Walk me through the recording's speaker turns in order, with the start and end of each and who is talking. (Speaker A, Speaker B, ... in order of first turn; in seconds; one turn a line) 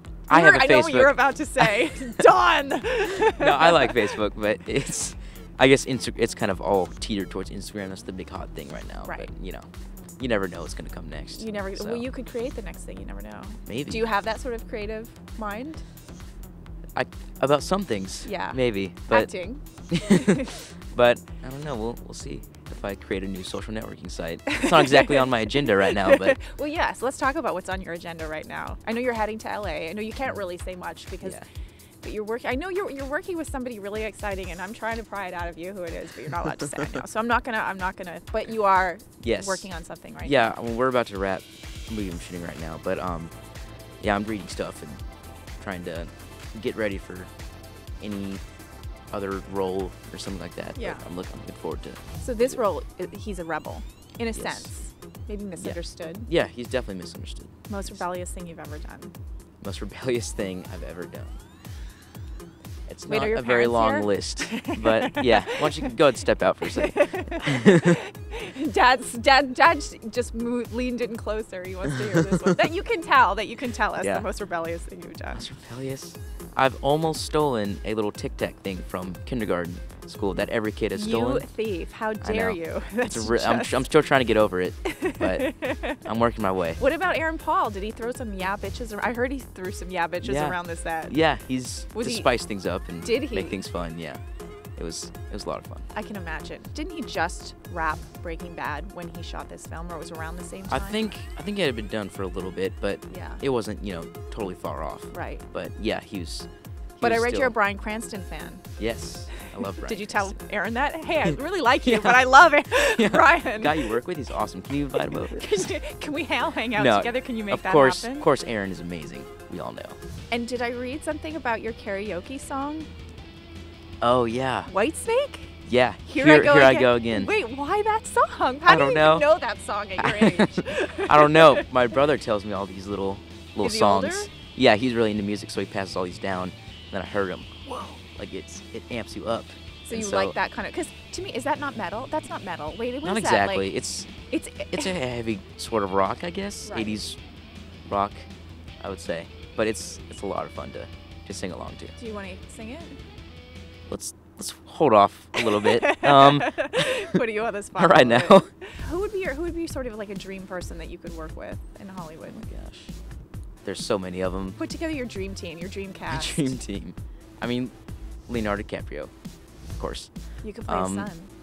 Speaker A: 0.3-1.7
Speaker B: 0.3-4.1
Speaker A: 3.3-9.7
Speaker A: 10.2-12.1
Speaker B: 11.3-15.8
Speaker A: 13.7-14.0
Speaker A: 16.9-19.3
Speaker B: 18.2-20.5
Speaker A: 19.9-26.4
Speaker B: 24.6-31.4
Speaker A: 31.2-31.5
Speaker B: 32.0-40.5
Speaker A: 39.2-39.7
Speaker A: 40.2-43.3
Speaker A: 44.0-45.0
Speaker A: 45.6-47.3
Speaker A: 48.0-48.4
Speaker A: 49.1-52.6
Speaker B: 50.8-51.0
Speaker B: 52.2-56.3
Speaker A: 54.3-54.7
Speaker A: 55.6-58.0
Speaker B: 57.7-59.1
Speaker A: 59.6-61.4
Speaker A: 62.9-68.0
Speaker B: 63.1-65.7
Speaker B: 66.7-75.4
Speaker A: 74.0-74.3
Speaker A: 75.3-81.5
Speaker B: 80.9-83.8
Speaker A: 82.2-86.8
Speaker B: 84.8-86.0
Speaker B: 86.8-91.2
Speaker A: 90.2-94.2
Speaker B: 91.9-92.3
Speaker B: 93.0-93.6
Speaker A: 94.8-95.9
Speaker B: 95.9-101.2
Speaker A: 100.7-107.5
Speaker B: 103.1-103.4
Speaker B: 105.1-105.4
Speaker B: 107.0-108.6
Speaker A: 108.8-110.4
Speaker B: 109.3-114.0
Speaker A: 111.8-115.7
Speaker B: 114.9-118.3
Speaker A: 116.7-120.0
Speaker B: 120.3-122.9
Speaker A: 124.0-124.7
Speaker B: 124.7-125.5
Speaker A: 125.7-127.3
Speaker B: 126.1-131.7
Speaker A: 128.7-129.3
Speaker A: 130.0-140.4
Speaker B: 133.6-134.3
Speaker B: 137.7-138.0
Speaker B: 139.8-143.7
Speaker A: 143.0-144.1
Speaker B: 144.2-144.9
Speaker A: 144.7-147.2
Speaker B: 146.7-147.0
Speaker A: 147.9-148.3
Speaker A: 148.8-151.9
Speaker B: 152.0-153.0
Speaker A: 153.9-157.2
Speaker B: 155.4-162.5
Speaker A: 157.8-158.5
Speaker A: 162.4-162.9
Speaker A: 163.6-164.6
Speaker B: 164.6-166.6
Speaker A: 166.1-167.7
Speaker A: 168.3-169.1
Speaker A: 169.7-170.1
Speaker B: 170.4-171.3
Speaker A: 170.7-171.1